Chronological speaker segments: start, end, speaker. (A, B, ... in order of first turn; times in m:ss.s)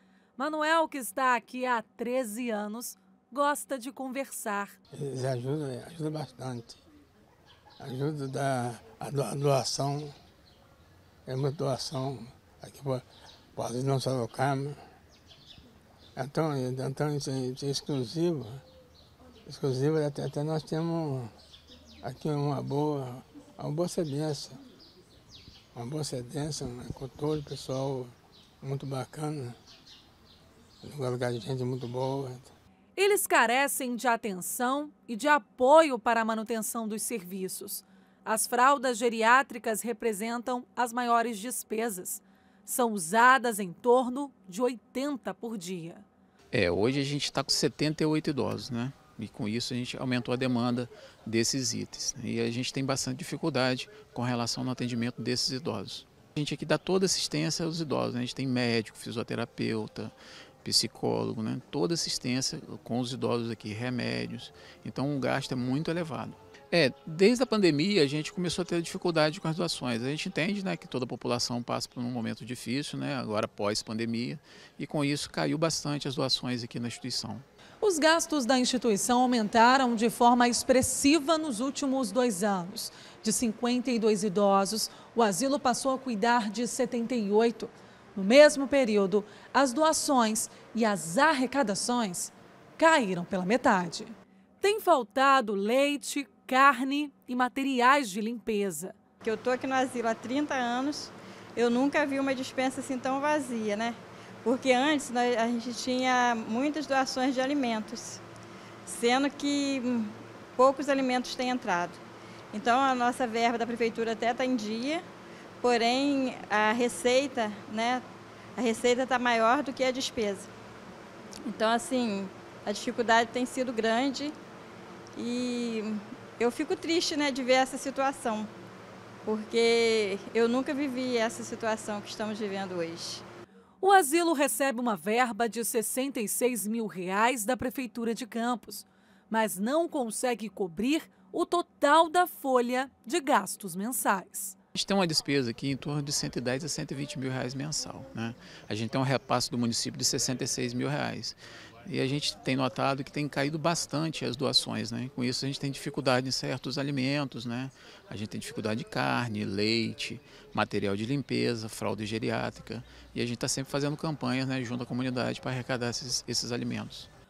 0:00.4-0:04.8 A
0:04.9-0:06.8 B
0:07.8-0:10.1 B
0:11.2-0:14.8 B
0:16.2-0:18.6 B
0:19.4-0:21.3 B
0:22.0-0:24.6 B
0:25.7-0:29.6 B
0:30.8-0:32.5 B
0:33.0-0:46.0 A
0:46.5-1:17.4 C
1:17.8-1:39.0 A
1:39.2-1:48.2 D
1:48.8-1:52.0 D
1:52.5-1:55.0 D
1:55.6-1:58.0 D
1:58.6-2:00.5 D
2:01.5-2:04.3 D
2:05.2-2:08.5 D
2:09.2-2:13.2 D
2:13.8-2:24.6 A
2:24.7-2:47.1 C